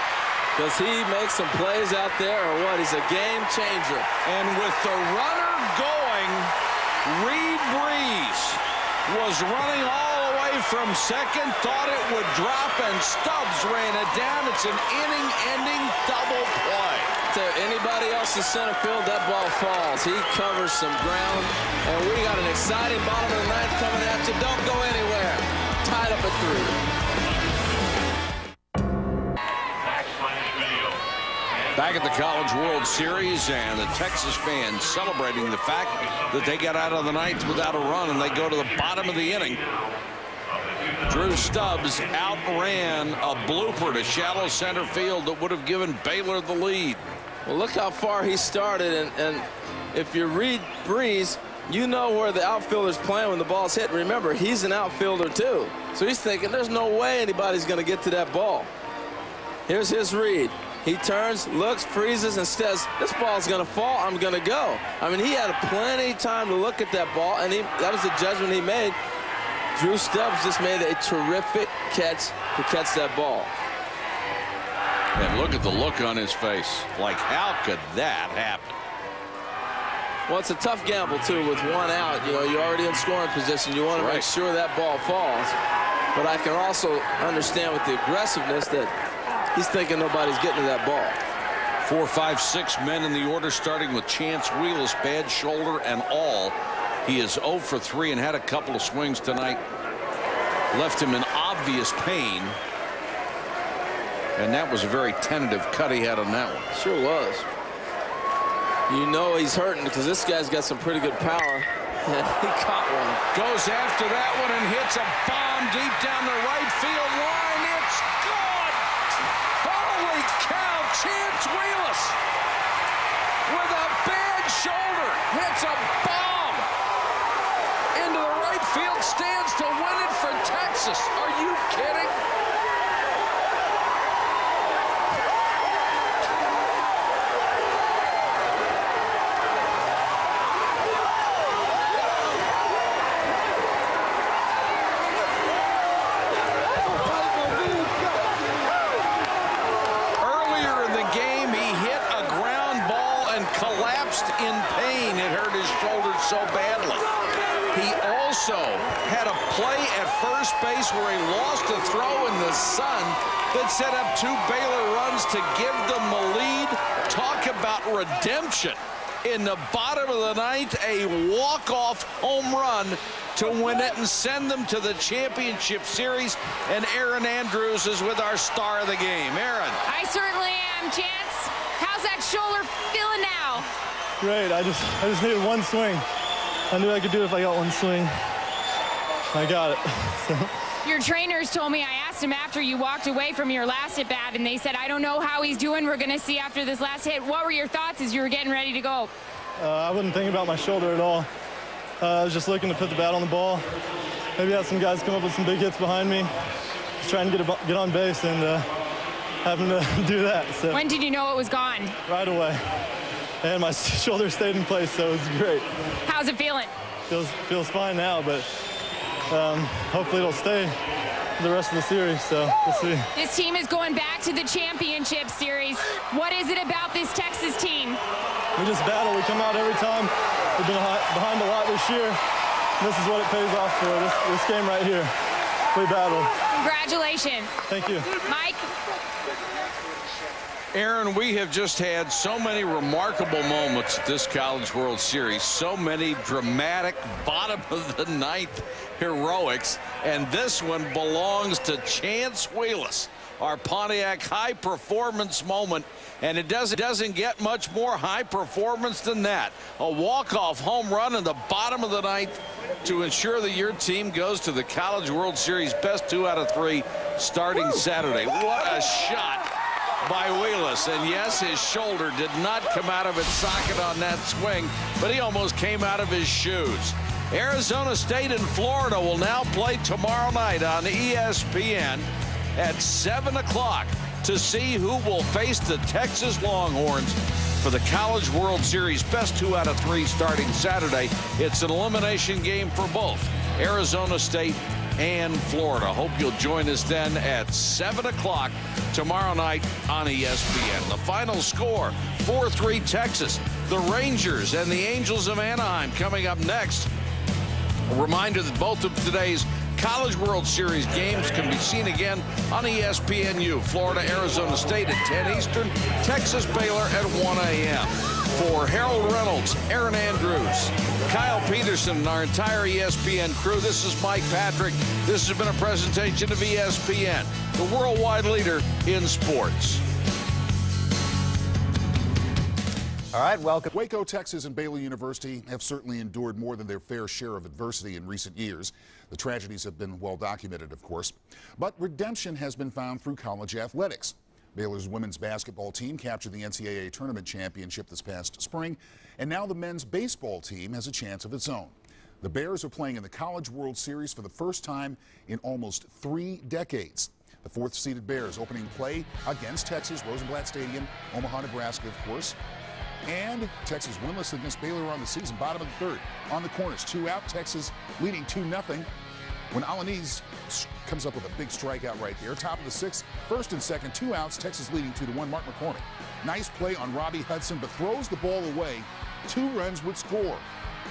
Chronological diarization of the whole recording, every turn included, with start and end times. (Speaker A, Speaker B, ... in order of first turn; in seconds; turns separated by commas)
Speaker A: 0.6-4.1, Speaker B: 4.2-6.5, Speaker B: 7.0-17.1, Speaker A: 17.3-26.8, Speaker B: 31.7-39.8, Speaker B: 41.0-47.0, Speaker A: 47.5-58.7, Speaker A: 59.7-69.0, Speaker A: 69.8-73.5, Speaker B: 75.1-78.8, Speaker A: 80.3-85.5, Speaker B: 83.9-84.3, Speaker A: 86.1-88.9, Speaker A: 89.5-91.2, Speaker B: 91.8-99.6, Speaker B: 100.7-102.6, Speaker B: 104.3-106.7, Speaker A: 106.7-107.5, Speaker A: 108.9-113.2, Speaker B: 113.3-118.8, Speaker B: 119.6-122.2, Speaker B: 123.5-126.7, Speaker B: 127.9-132.2, Speaker B: 150.2-157.1, Speaker B: 157.7-179.8, Speaker C: 179.9-183.7, Speaker D: 184.2-186.0, Speaker D: 186.7-188.1, Speaker D: 189.3-190.5, Speaker C: 190.8-199.1, Speaker D: 199.6-201.3, Speaker D: 202.0-203.7, Speaker D: 204.4-206.3, Speaker D: 207.0-208.7, Speaker D: 209.4-210.8, Speaker C: 210.7-212.0, Speaker D: 212.1-212.6, Speaker D: 213.4-215.7, Speaker C: 216.1-216.7, Speaker D: 217.1-218.5, Speaker D: 219.3-220.8, Speaker D: 221.4-223.1, Speaker C: 223.2-228.0, Speaker D: 228.6-232.2, Speaker D: 232.8-235.1, Speaker D: 235.7-236.3, Speaker C: 236.6-237.5, Speaker D: 237.7-238.1, Speaker C: 238.2-238.7, Speaker B: 240.7-269.5, Speaker B: 270.0-306.9, Speaker B: 307.9-329.8, Speaker E: 333.6-362.4, Speaker E: 363.1-368.9, Speaker E: 369.5-380.4